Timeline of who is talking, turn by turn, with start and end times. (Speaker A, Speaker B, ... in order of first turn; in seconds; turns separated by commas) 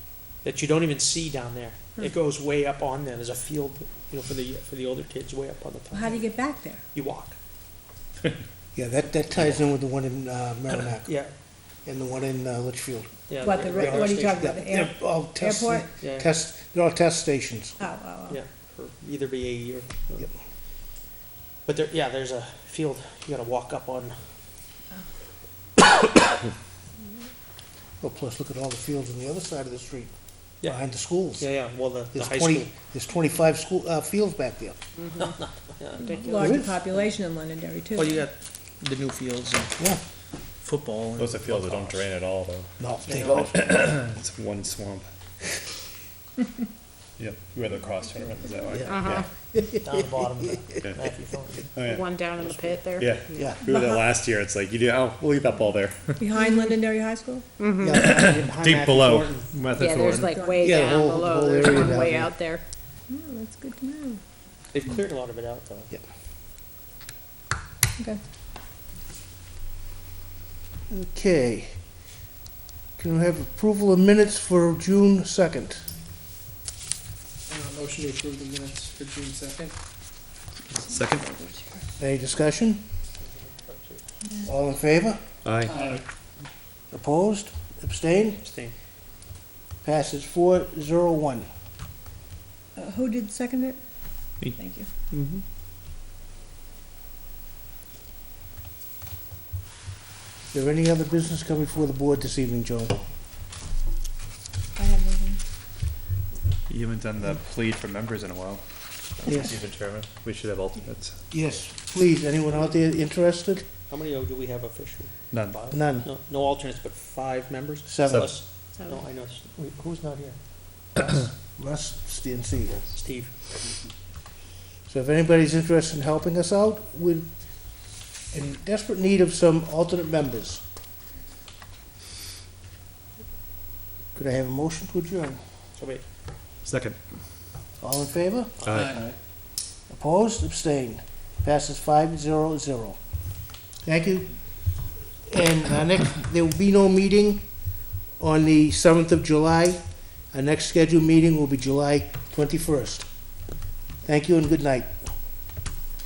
Speaker A: 0.4-7.4, Speaker B: 5.9-6.8, Speaker C: 8.7-11.2, Speaker A: 11.0-11.3, Speaker C: 11.8-17.8, Speaker A: 13.3-14.5, Speaker B: 13.4-15.9, Speaker A: 16.0-16.3, Speaker B: 17.8-18.4, Speaker A: 18.3-20.3, Speaker A: 21.6-24.1, Speaker C: 28.0-30.1, Speaker C: 30.6-31.5, Speaker A: 31.4-32.7, Speaker C: 32.1-34.8, Speaker A: 35.2-36.5, Speaker B: 36.0-38.2, Speaker D: 36.0-36.4, Speaker C: 36.4-36.7, Speaker A: 37.9-39.8, Speaker A: 40.6-42.0, Speaker E: 41.2-42.8, Speaker C: 42.8-43.7, Speaker A: 43.0-43.5, Speaker E: 43.5-45.1, Speaker E: 47.2-49.3, Speaker C: 48.7-49.9, Speaker D: 48.9-49.3, Speaker A: 49.8-51.6, Speaker E: 51.7-52.2, Speaker D: 51.8-53.6, Speaker E: 53.0-56.2, Speaker C: 53.2-53.6, Speaker B: 53.6-54.1, Speaker B: 56.2-57.5, Speaker D: 57.6-58.1, Speaker A: 57.8-59.5, Speaker E: 58.0-60.3, Speaker D: 59.7-62.6, Speaker B: 60.2-60.8, Speaker C: 60.6-62.4, Speaker B: 63.1-64.2, Speaker A: 64.7-65.9, Speaker C: 70.9-71.8, Speaker C: 73.0-75.8, Speaker F: 77.5-79.8, Speaker E: 80.7-81.3, Speaker C: 82.0-82.8, Speaker A: 83.2-84.0, Speaker C: 84.4-85.2, Speaker E: 85.4-85.7, Speaker F: 85.7-86.0, Speaker C: 86.9-88.4, Speaker A: 88.4-88.7, Speaker C: 89.8-91.5, Speaker B: 92.7-94.9, Speaker A: 95.1-95.4, Speaker C: 100.5-103.1, Speaker B: 104.8-105.4, Speaker E: 106.7-111.2, Speaker C: 109.2-109.6, Speaker C: 111.3-113.7, Speaker A: 113.9-120.4, Speaker E: 115.3-115.7, Speaker C: 115.7-116.1, Speaker C: 117.8-118.3, Speaker D: 118.8-119.0, Speaker A: 120.9-121.2, Speaker C: 121.5-122.9, Speaker A: 122.7-123.4, Speaker C: 124.9-130.6, Speaker C: 134.1-135.4, Speaker A: 135.8-136.0, Speaker E: 136.6-137.1, Speaker C: 137.8-138.5, Speaker A: 138.6-139.0, Speaker E: 138.6-138.9, Speaker F: 138.7-139.2, Speaker C: 139.9-143.0, Speaker C: 143.8-147.5, Speaker C: 148.2-153.1, Speaker C: 154.0-154.9